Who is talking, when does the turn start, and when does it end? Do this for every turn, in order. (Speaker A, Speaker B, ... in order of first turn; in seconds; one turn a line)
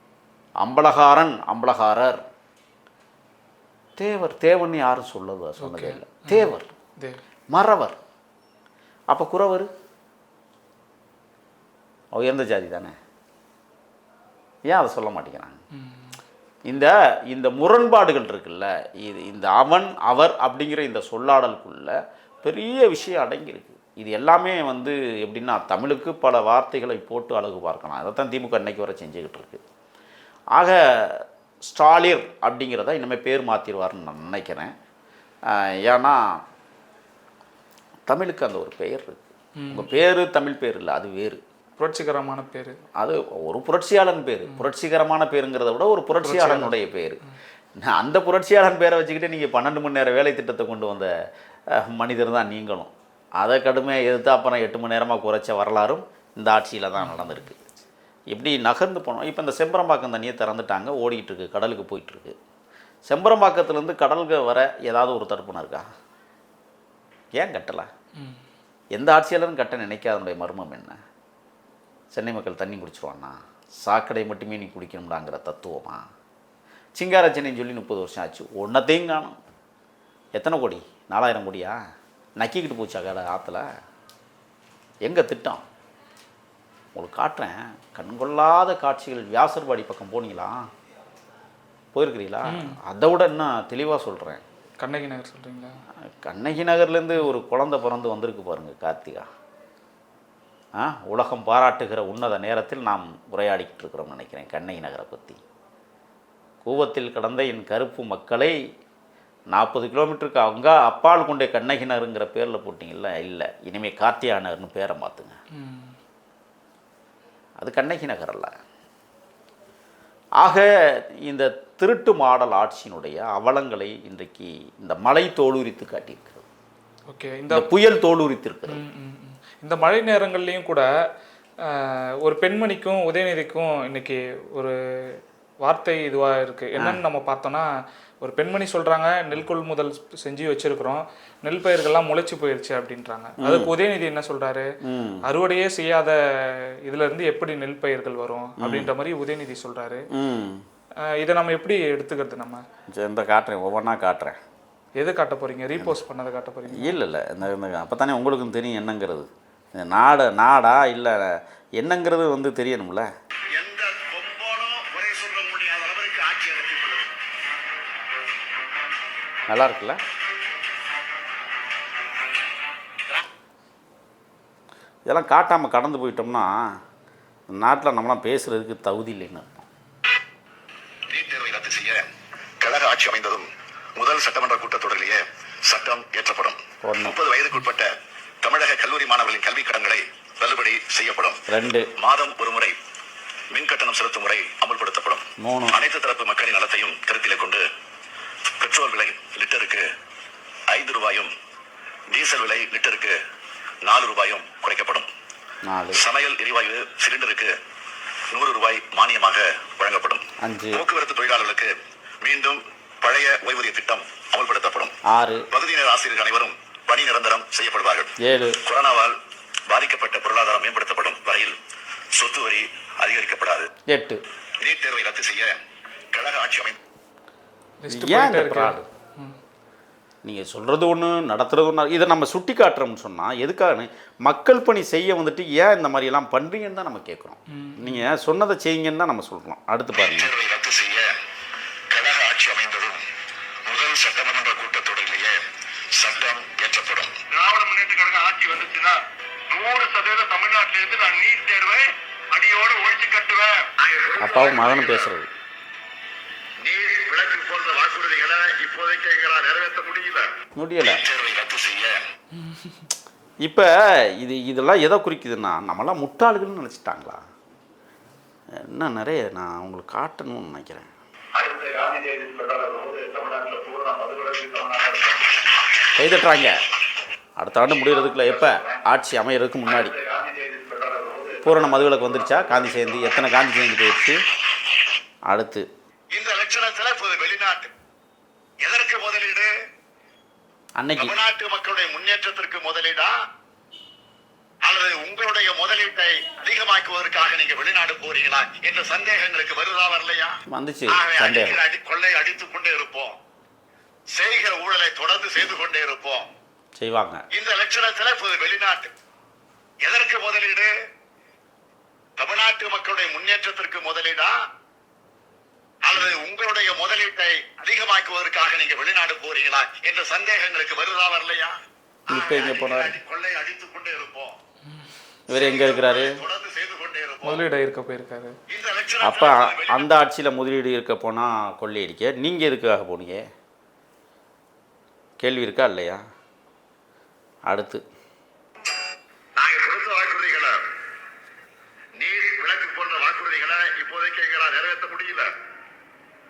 Speaker A: 0.6-2.2
Speaker A: 4.0-6.7
Speaker B: 5.6-7.2
Speaker A: 7.5-8.0
Speaker A: 9.1-9.7
Speaker A: 12.1-12.9
Speaker A: 14.7-15.6
Speaker B: 15.7-16.2
Speaker A: 16.7-29.6
Speaker A: 30.6-34.7
Speaker A: 35.5-36.4
Speaker A: 38.1-41.4
Speaker B: 39.6-39.9
Speaker B: 41.8-42.8
Speaker A: 43.0-47.2
Speaker B: 46.2-46.8
Speaker A: 47.8-51.1
Speaker A: 51.7-57.6
Speaker B: 57.0-57.5
Speaker A: 58.3-62.4
Speaker A: 63.1-65.9
Speaker A: 67.3-67.9
Speaker B: 68.2-68.4
Speaker A: 68.9-71.0
Speaker A: 72.1-76.0
Speaker A: 77.0-79.4
Speaker A: 80.3-81.8
Speaker A: 82.4-83.7
Speaker A: 85.0-85.6
Speaker A: 87.0-90.7
Speaker A: 91.9-94.4
Speaker B: 92.5-92.8
Speaker B: 94.8-95.8
Speaker A: 96.2-99.3
Speaker A: 100.8-105.4
Speaker A: 106.6-108.6
Speaker A: 109.5-115.3
Speaker B: 115.5-116.0
Speaker A: 117.6-118.6
Speaker A: 120.4-126.4
Speaker B: 127.1-127.7
Speaker A: 127.5-128.8
Speaker B: 128.7-130.9
Speaker B: 131.6-137.7
Speaker B: 138.2-150.1
Speaker A: 143.4-143.7
Speaker A: 144.8-145.3
Speaker A: 148.6-148.9
Speaker A: 150.1-150.7
Speaker B: 151.0-152.6
Speaker A: 152.9-154.4
Speaker B: 155.0-157.0
Speaker A: 156.8-163.1
Speaker C: 163.5-167.1
Speaker A: 169.5-170.0
Speaker A: 175.1-176.8
Speaker A: 177.5-179.7
Speaker C: 181.1-182.1
Speaker C: 182.6-191.4
Speaker A: 186.8-187.2
Speaker A: 191.5-191.9
Speaker C: 192.0-192.8
Speaker C: 193.5-197.7
Speaker A: 195.4-195.8
Speaker C: 198.6-199.9
Speaker C: 200.7-201.3
Speaker C: 202.1-203.2
Speaker C: 203.8-205.1
Speaker A: 205.6-206.0
Speaker C: 205.9-207.6
Speaker C: 208.3-215.0
Speaker A: 210.4-210.8
Speaker A: 215.1-215.5
Speaker C: 215.5-219.2
Speaker A: 218.2-218.6
Speaker C: 219.7-221.6
Speaker C: 222.1-223.7
Speaker A: 223.9-224.2
Speaker C: 224.6-225.6
Speaker C: 226.1-226.8
Speaker B: 227.8-229.4
Speaker A: 227.9-228.9
Speaker A: 230.2-240.3
Speaker B: 237.5-238.1
Speaker C: 239.9-241.2
Speaker C: 241.9-243.1
Speaker C: 243.7-249.0
Speaker C: 249.5-255.1
Speaker A: 254.2-255.3
Speaker C: 256.6-262.0
Speaker A: 260.6-261.0
Speaker B: 262.4-262.8
Speaker A: 263.4-267.2
Speaker A: 268.6-270.9
Speaker C: 271.4-275.6
Speaker A: 276.0-276.6
Speaker A: 277.4-279.9
Speaker C: 277.7-278.8
Speaker C: 279.7-283.9
Speaker A: 281.4-284.2
Speaker A: 285.3-285.7
Speaker C: 286.1-287.7
Speaker C: 288.6-289.5
Speaker A: 290.8-291.1
Speaker C: 291.0-293.1
Speaker C: 294.6-303.2
Speaker A: 300.5-301.6
Speaker C: 304.1-306.3
Speaker A: 306.8-307.2
Speaker C: 307.3-308.9
Speaker C: 309.8-310.7
Speaker C: 312.2-314.3
Speaker C: 315.8-321.6
Speaker C: 322.1-324.4
Speaker A: 322.1-322.9
Speaker A: 325.3-326.2
Speaker C: 325.3-327.4
Speaker B: 327.2-328.4
Speaker C: 328.5-329.9
Speaker A: 329.0-333.2
Speaker A: 335.2-336.0
Speaker A: 337.5-337.8
Speaker C: 339.4-340.6
Speaker C: 342.0-345.3